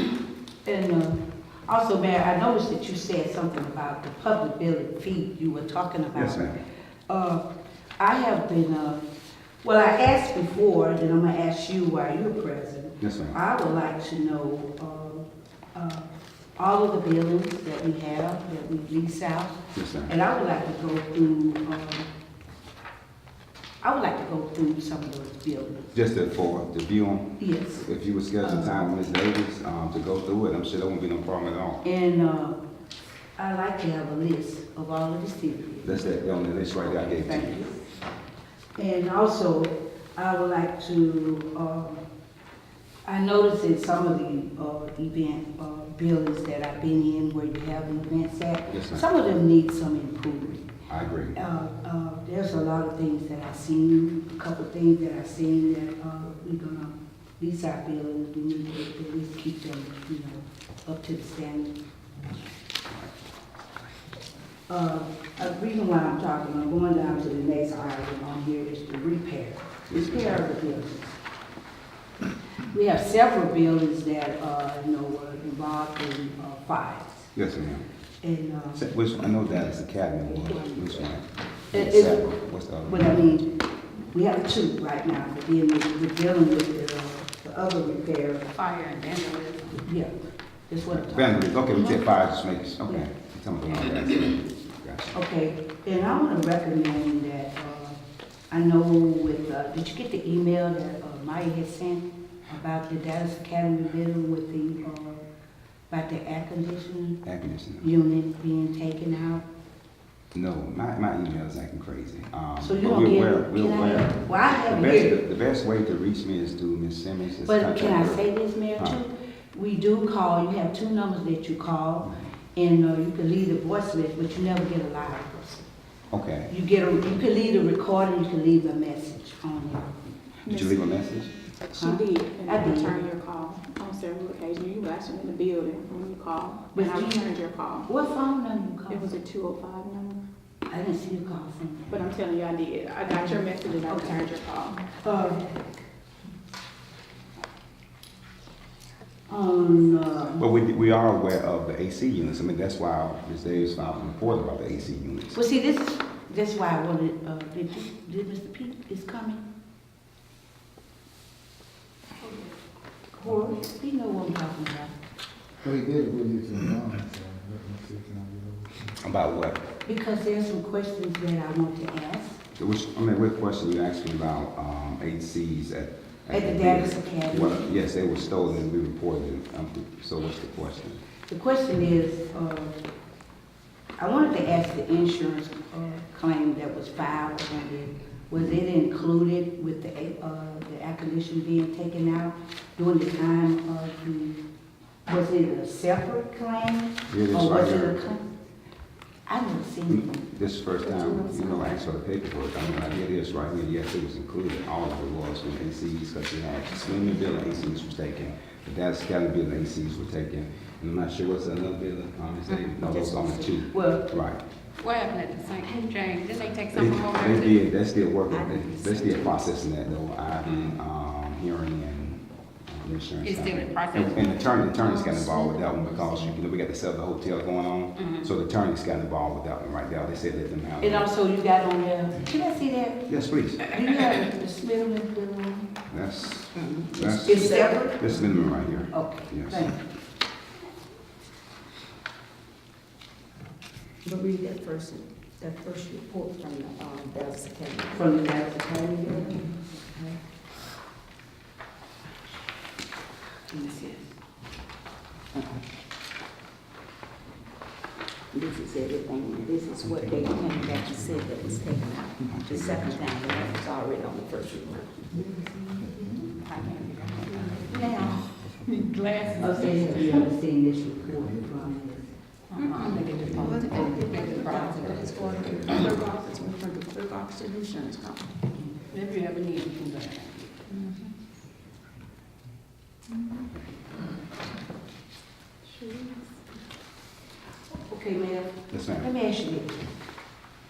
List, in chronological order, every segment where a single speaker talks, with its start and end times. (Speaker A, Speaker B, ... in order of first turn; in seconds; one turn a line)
Speaker A: 0.6-6.5
Speaker B: 6.1-6.6
Speaker A: 7.1-7.4
Speaker A: 8.0-9.0
Speaker A: 9.6-22.1
Speaker B: 13.0-13.4
Speaker B: 19.7-20.1
Speaker A: 23.8-25.9
Speaker B: 25.9-31.8
Speaker A: 27.4-27.9
Speaker A: 28.4-29.0
Speaker A: 31.8-32.6
Speaker A: 33.4-37.8
Speaker B: 35.8-37.7
Speaker A: 38.8-42.0
Speaker A: 43.0-50.7
Speaker B: 48.7-49.0
Speaker B: 50.9-51.4
Speaker A: 51.3-61.7
Speaker A: 64.7-71.1
Speaker B: 69.9-70.4
Speaker A: 72.7-77.3
Speaker B: 77.3-77.8
Speaker A: 78.2-78.8
Speaker B: 78.7-83.2
Speaker A: 80.2-81.1
Speaker A: 81.7-82.3
Speaker A: 82.8-83.5
Speaker A: 84.1-88.5
Speaker C: 88.5-89.8
Speaker A: 89.8-90.1
Speaker A: 90.7-92.0
Speaker B: 90.9-95.2
Speaker A: 95.1-98.0
Speaker A: 98.5-105.2
Speaker A: 105.9-107.2
Speaker B: 107.2-107.8
Speaker A: 107.8-109.4
Speaker B: 110.3-118.2
Speaker A: 112.6-115.2
Speaker A: 117.4-125.7
Speaker B: 126.1-126.5
Speaker A: 126.5-129.9
Speaker D: 130.4-130.8
Speaker B: 130.4-131.3
Speaker D: 131.7-137.9
Speaker A: 131.7-132.9
Speaker A: 136.7-137.3
Speaker A: 137.8-139.1
Speaker D: 138.9-140.2
Speaker A: 140.7-142.0
Speaker D: 141.9-144.8
Speaker A: 143.1-144.2
Speaker A: 144.9-145.8
Speaker A: 149.3-150.4
Speaker B: 150.4-155.4
Speaker A: 155.3-159.4
Speaker A: 163.2-164.9
Speaker E: 165.6-169.0
Speaker B: 169.0-169.6
Speaker A: 169.8-172.4
Speaker B: 172.5-181.0
Speaker A: 176.3-177.7
Speaker A: 181.3-182.8
Speaker A: 184.0-194.4
Speaker A: 195.1-198.2
Speaker B: 197.1-198.0
Speaker A: 199.3-200.2
Speaker B: 199.9-214.4
Speaker F: 200.8-201.7
Speaker F: 212.7-213.6
Speaker A: 213.7-214.1
Speaker C: 214.8-217.6
Speaker B: 216.7-231.1
Speaker F: 218.3-219.6
Speaker C: 223.2-224.5
Speaker F: 224.8-226.3
Speaker C: 228.0-228.2
Speaker A: 230.8-233.0
Speaker B: 233.1-233.8
Speaker A: 233.6-235.7
Speaker B: 235.9-239.7
Speaker F: 236.6-237.8
Speaker A: 237.0-239.8
Speaker F: 244.0-248.1
Speaker A: 247.9-250.2
Speaker A: 253.5-254.1
Speaker F: 258.3-265.1
Speaker E: 259.8-261.7
Speaker B: 262.3-262.7
Speaker E: 262.5-263.6
Speaker E: 265.4-269.5
Speaker C: 266.4-267.6
Speaker D: 267.2-267.5
Speaker F: 267.7-268.2
Speaker C: 268.6-270.1
Speaker A: 269.4-272.1
Speaker E: 271.0-271.6
Speaker C: 272.5-275.1
Speaker F: 272.8-278.3
Speaker B: 272.9-273.6
Speaker D: 273.8-274.4
Speaker E: 274.9-275.9
Speaker D: 275.0-275.8
Speaker C: 278.9-281.1
Speaker A: 287.7-289.8
Speaker B: 288.7-289.1